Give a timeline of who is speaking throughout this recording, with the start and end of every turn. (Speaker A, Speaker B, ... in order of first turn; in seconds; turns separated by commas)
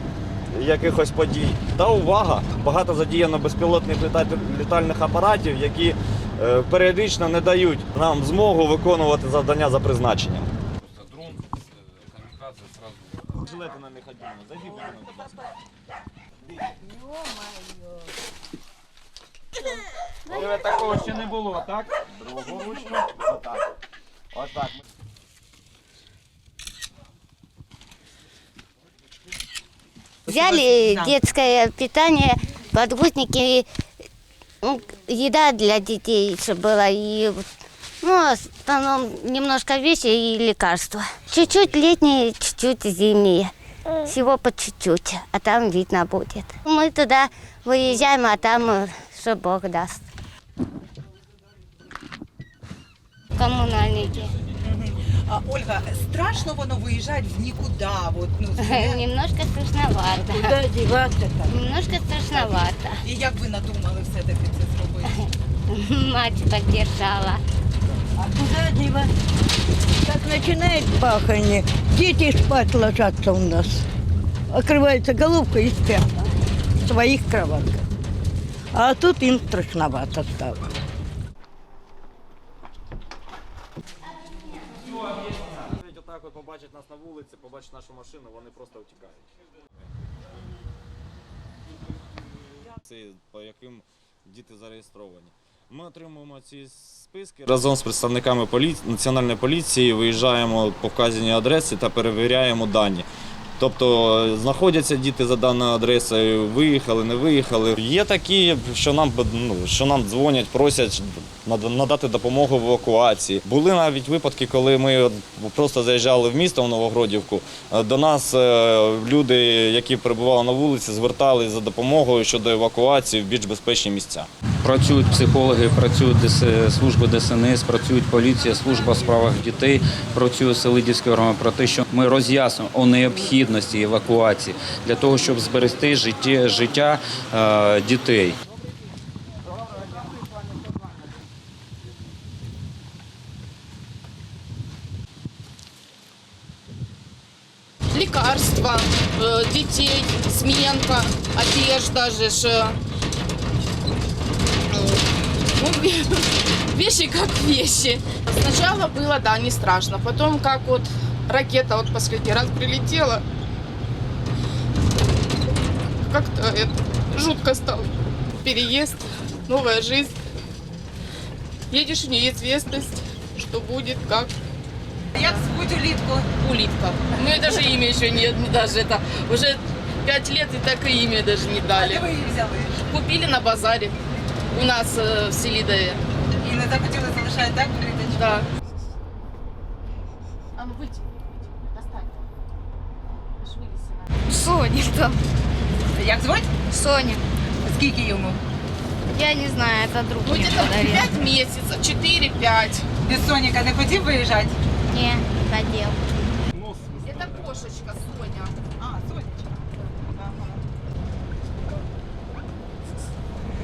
Speaker A: 0.5-10.5, Speaker B: 10.8-13.1, Speaker A: 13.3-15.3, Speaker C: 16.9-17.8, Speaker A: 20.3-20.7, Speaker B: 20.5-21.5, Speaker A: 22.0-23.6, Speaker A: 24.3-24.7, Speaker D: 30.3-33.6, Speaker E: 30.3-31.2, Speaker D: 34.6-37.4, Speaker D: 38.0-43.5, Speaker D: 44.0-50.0, Speaker D: 53.4-54.3, Speaker E: 54.6-59.1, Speaker D: 58.6-60.6, Speaker C: 60.2-61.5, Speaker D: 61.5-63.0, Speaker E: 62.1-65.2, Speaker D: 65.7-67.4, Speaker C: 68.2-69.1, Speaker C: 70.0-73.8, Speaker C: 74.5-76.1, Speaker C: 76.8-77.8, Speaker C: 78.7-80.7, Speaker A: 85.6-89.3, Speaker A: 92.8-103.1, Speaker A: 103.6-124.3, Speaker F: 124.6-138.4, Speaker G: 147.9-152.8, Speaker G: 154.7-155.0, Speaker G: 155.6-163.2, Speaker G: 166.1-170.2, Speaker G: 171.7-174.3, Speaker E: 175.2-176.3, Speaker G: 176.4-182.2, Speaker E: 181.7-182.8, Speaker G: 182.9-183.9, Speaker G: 184.5-186.0, Speaker E: 186.3-188.4, Speaker G: 188.1-188.4, Speaker G: 190.6-192.2, Speaker G: 193.4-194.1, Speaker H: 194.3-195.2, Speaker E: 195.9-196.5, Speaker H: 196.7-197.2, Speaker E: 197.6-198.4, Speaker H: 199.1-201.1, Speaker G: 200.2-202.9, Speaker E: 203.1-204.6, Speaker H: 204.9-206.0, Speaker G: 207.0-208.6, Speaker E: 208.8-210.6